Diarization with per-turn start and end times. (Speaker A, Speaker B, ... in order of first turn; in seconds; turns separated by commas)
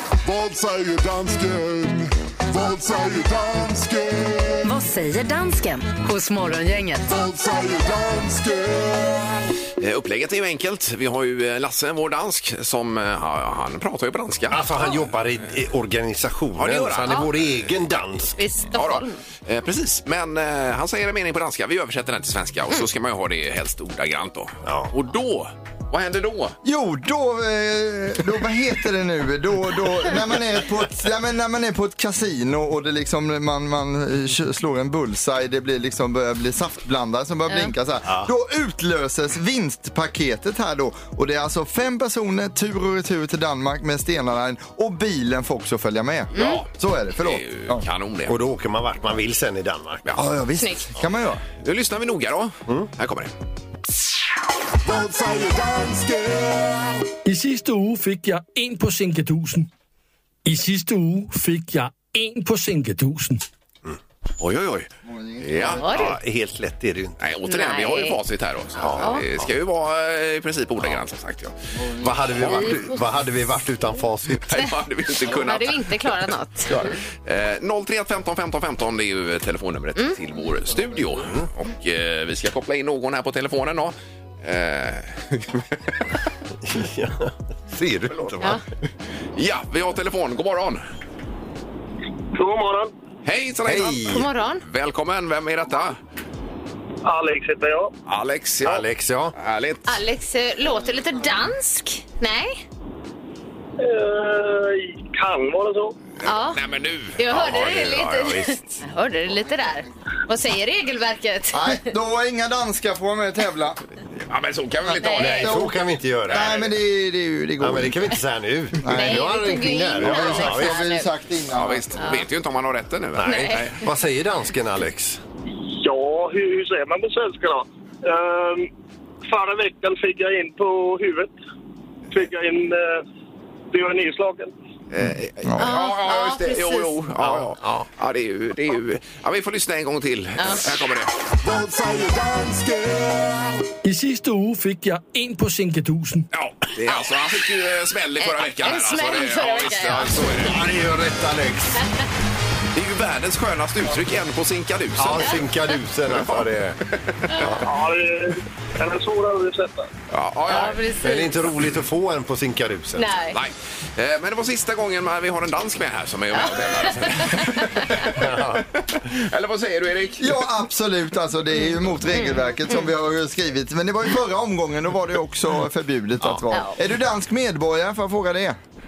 Speaker A: 0.2-4.6, Speaker B: 4.6-7.1, Speaker A: 7.1-9.3, Speaker C: 9.8-14.6, Speaker D: 14.5-18.4, Speaker C: 16.6-17.5, Speaker E: 18.4-19.2, Speaker C: 18.7-26.6, Speaker D: 24.6-24.9, Speaker F: 26.6-47.8, Speaker D: 38.0-38.3, Speaker E: 46.3-46.6, Speaker C: 46.3-48.4, Speaker D: 48.3-50.1, Speaker F: 50.1-51.4, Speaker E: 50.6-50.9, Speaker C: 51.6-53.3, Speaker A: 54.9-56.9, Speaker G: 57.2-59.7, Speaker G: 60.5-63.4, Speaker C: 64.4-66.1, Speaker F: 65.0-65.8, Speaker E: 65.7-66.1, Speaker D: 65.9-67.2, Speaker C: 67.2-71.5, Speaker E: 67.5-68.2, Speaker D: 68.8-69.5, Speaker D: 72.0-74.6, Speaker C: 72.1-72.8, Speaker C: 74.4-75.9, Speaker E: 75.3-76.9, Speaker C: 76.7-86.0, Speaker D: 81.2-81.5, Speaker D: 86.6-88.6, Speaker C: 89.3-90.8, Speaker H: 92.3-92.9, Speaker C: 93.2-96.0, Speaker D: 93.6-94.3, Speaker E: 94.1-94.6, Speaker H: 97.0-97.9, Speaker C: 98.1-100.0, Speaker D: 98.6-99.3, Speaker E: 99.9-102.6, Speaker H: 103.8-106.0, Speaker C: 106.2-108.5, Speaker E: 106.2-106.6, Speaker E: 107.2-111.9, Speaker F: 111.5-113.8, Speaker C: 114.2-115.7, Speaker E: 115.0-115.5, Speaker D: 115.0-116.6, Speaker F: 115.4-115.7, Speaker C: 116.3-116.8, Speaker F: 116.3-118.2, Speaker D: 117.6-120.9, Speaker F: 118.8-119.3, Speaker E: 118.9-121.1, Speaker C: 120.0-120.5, Speaker F: 120.0-122.0, Speaker C: 121.5-123.8, Speaker D: 123.2-125.2, Speaker E: 123.2-123.7, Speaker H: 125.6-128.7, Speaker H: 129.3-131.3, Speaker H: 132.1-133.0, Speaker H: 133.7-134.5, Speaker C: 134.9-141.1, Speaker F: 135.4-135.7, Speaker E: 135.6-137.0, Speaker D: 137.2-137.8, Speaker E: 140.4-140.7, Speaker A: 141.4-143.5, Speaker G: 143.8-146.3, Speaker C: 146.3-150.7, Speaker E: 148.2-150.5, Speaker D: 150.4-151.8, Speaker C: 152.7-155.4, Speaker D: 155.0-156.8, Speaker C: 156.1-157.5, Speaker D: 157.3-157.7, Speaker H: 157.6-159.9, Speaker C: 160.1-160.8, Speaker E: 160.5-161.5, Speaker D: 160.9-163.1, Speaker E: 162.9-163.4, Speaker C: 163.3-170.4, Speaker E: 166.4-167.9, Speaker D: 168.1-168.6, Speaker F: 170.2-178.6, Speaker E: 176.5-176.8